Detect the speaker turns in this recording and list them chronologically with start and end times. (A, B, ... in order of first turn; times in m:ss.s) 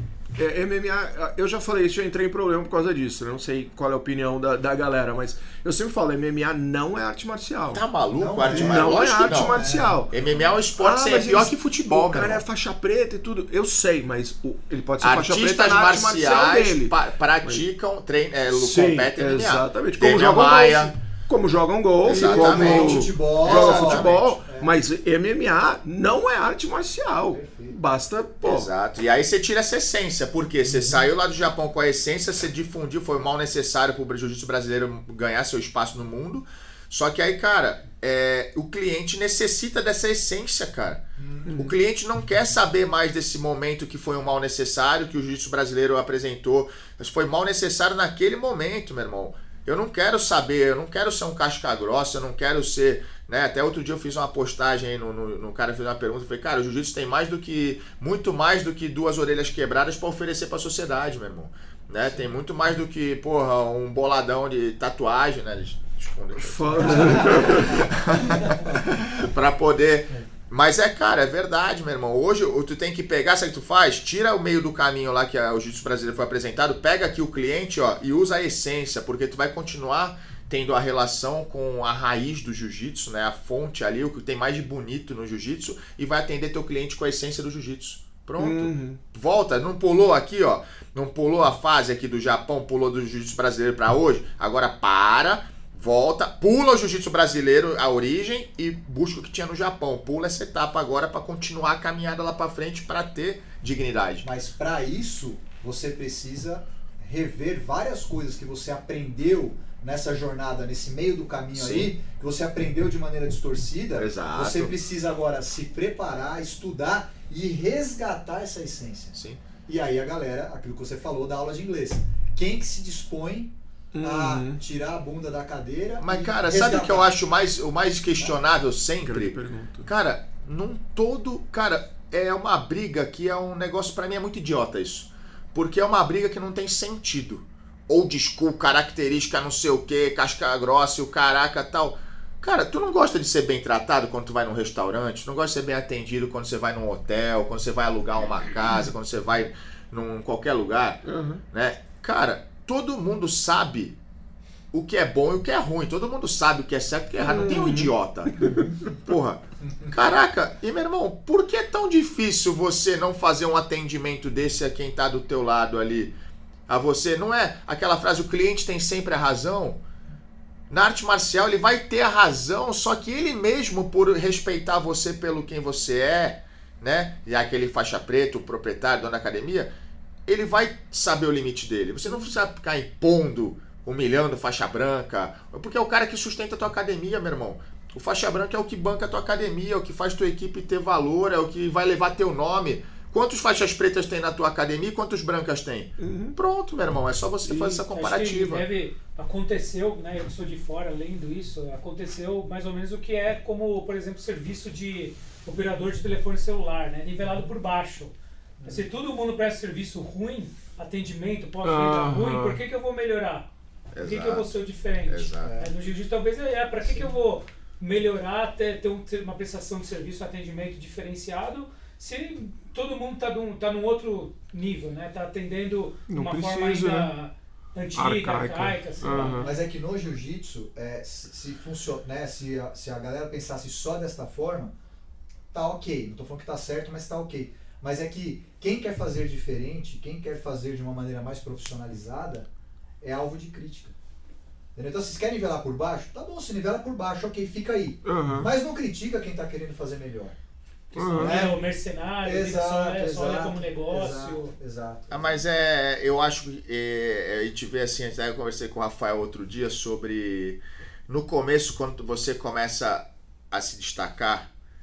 0:00.4-0:07.8 A
0:07.7-0:12.4 B
0:08.1-0:10.0 C
0:08.4-0:10.1 A
0:10.8-0:17.6 A
0:15.0-0:20.9 B
0:18.5-0:28.7 A
0:22.0-0:24.4 B
0:22.1-0:24.7 C
0:27.3-0:27.8 C
0:28.4-0:41.0 B
0:30.7-0:31.0 C
0:41.2-0:41.5 C
0:41.5-0:41.7 A
0:41.6-1:44.3 B
1:06.4-1:07.9 A
1:06.9-1:07.9 C
1:08.5-1:08.8 C
1:28.4-1:29.0 A
1:44.2-2:07.1 C
1:51.5-1:51.9 B
1:54.0-1:54.7 B
1:59.1-1:59.4 B
2:03.9-2:04.6 A
2:06.0-2:31.0 B
2:09.0-2:09.9 A
2:31.1-2:31.4 A
2:31.5-2:34.0 B
2:34.7-2:38.3 B
2:37.2-2:38.7 A
2:38.5-2:39.0 C
2:39.0-2:46.2 B
2:39.6-2:40.0 C
2:46.7-2:49.8 B
2:50.7-2:59.7 B
3:00.3-3:18.6 B
3:16.0-3:16.4 A
3:17.5-3:17.8 A
3:17.9-3:28.1 D
3:28.6-3:28.9 C
3:28.6-3:49.5 D
3:31.6-3:32.6 A
3:33.9-3:34.5 B
3:35.1-3:35.6 B
3:35.4-3:35.8 C
3:46.1-3:47.1 A
3:48.0-3:49.5 A
3:49.2-3:54.7 C
3:55.5-4:02.5 C
4:03.0-4:04.0 C
4:04.8-4:10.4 C
4:08.0-4:08.5 A
4:10.9-4:14.5 D
4:11.0-4:11.5 A
4:11.0-4:11.7 C
4:12.2-4:15.4 C
4:15.1-4:24.5 B